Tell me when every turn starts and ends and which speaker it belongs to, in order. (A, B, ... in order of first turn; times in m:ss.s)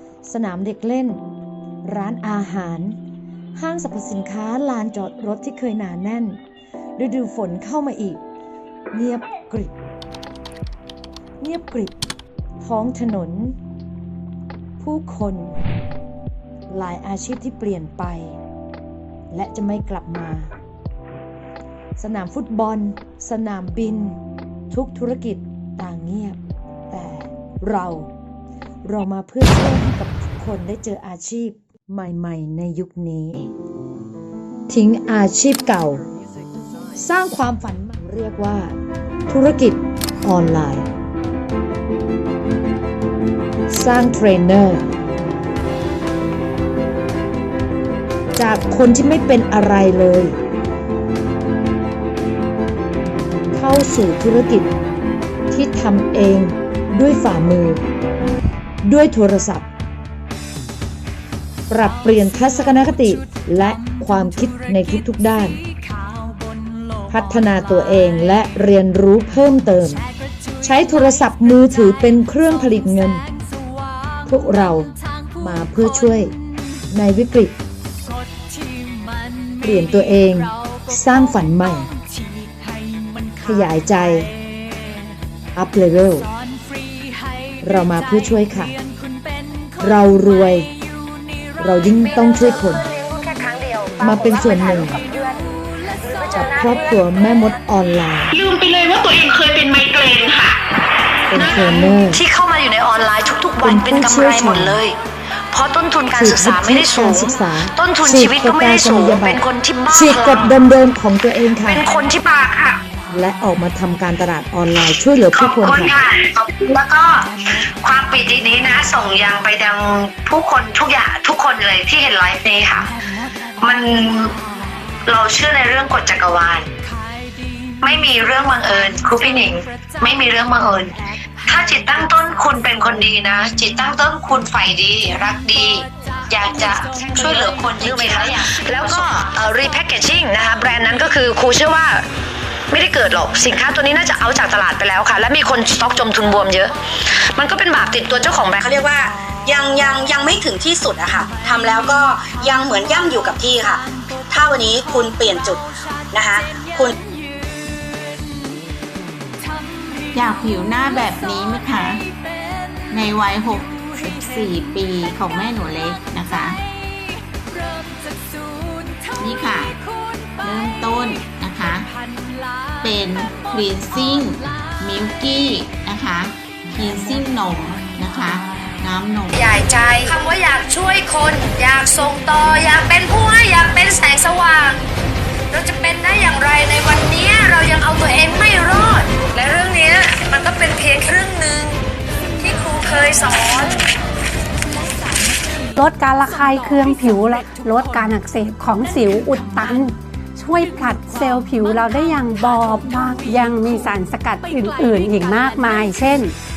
0:00.2-0:01.2 A
0:01.8-0:03.0 A
0:03.5-0:06.4 A
0:07.0-0:08.2 A
0:08.9-0:09.7 A
0:11.4-0:11.9 A
0:12.6-0:13.6 A
0:14.8-0:15.6 A
0:16.7-0:18.4 A
0:19.3-0:20.5 A
0:22.0-0:24.2 A
0:24.7-0:26.4 A
0:26.9-0:28.1 A
0:28.8-0:33.5 A
0:34.7-0:36.0 A
0:36.9-0:38.7 A
0:39.3-0:40.9 A
0:43.7-0:44.8 A
0:48.4-0:50.4 A
0:53.5-0:54.7 A
0:55.5-0:57.8 A
0:58.8-0:59.7 A
1:01.7-1:05.6 A
1:07.1-1:10.0 A
1:10.6-1:13.2 A
1:14.2-1:16.3 A
1:16.9-1:17.6 A
1:19.6-1:21.9 A
1:23.4-1:24.3 A
1:25.5-1:26.3 A
1:27.6-1:28.8 A
1:29.8-1:30.7 A
1:31.6-1:32.8 A
1:32.7-1:33.2 B
1:34.0-1:35.0 A
1:36.3-1:38.4 A
1:39.0-1:40.5 C
1:41.3-1:42.2 A
1:42.1-1:45.0 B
1:43.6-1:44.8 A
1:45.5-1:50.5 B
1:46.1-1:51.9 A
1:50.0-1:50.4 C
1:51.6-1:52.8 C
1:53.1-1:55.9 A
1:55.3-2:02.9 C
2:03.6-2:04.3 C
2:05.0-2:06.7 C
2:07.8-2:19.3 C
2:17.0-2:22.0 B
2:22.7-2:28.6 B
2:28.4-2:37.0 D
2:40.1-2:42.1 E
2:42.9-2:46.6 E
2:49.1-2:49.8 E
2:50.4-2:51.9 E
2:52.8-2:59.4 E
2:59.3-3:04.8 B
2:59.5-3:00.1 C
3:01.1-3:01.9 C
3:05.5-3:11.8 B
3:12.4-3:13.8 B
3:15.7-3:26.3 F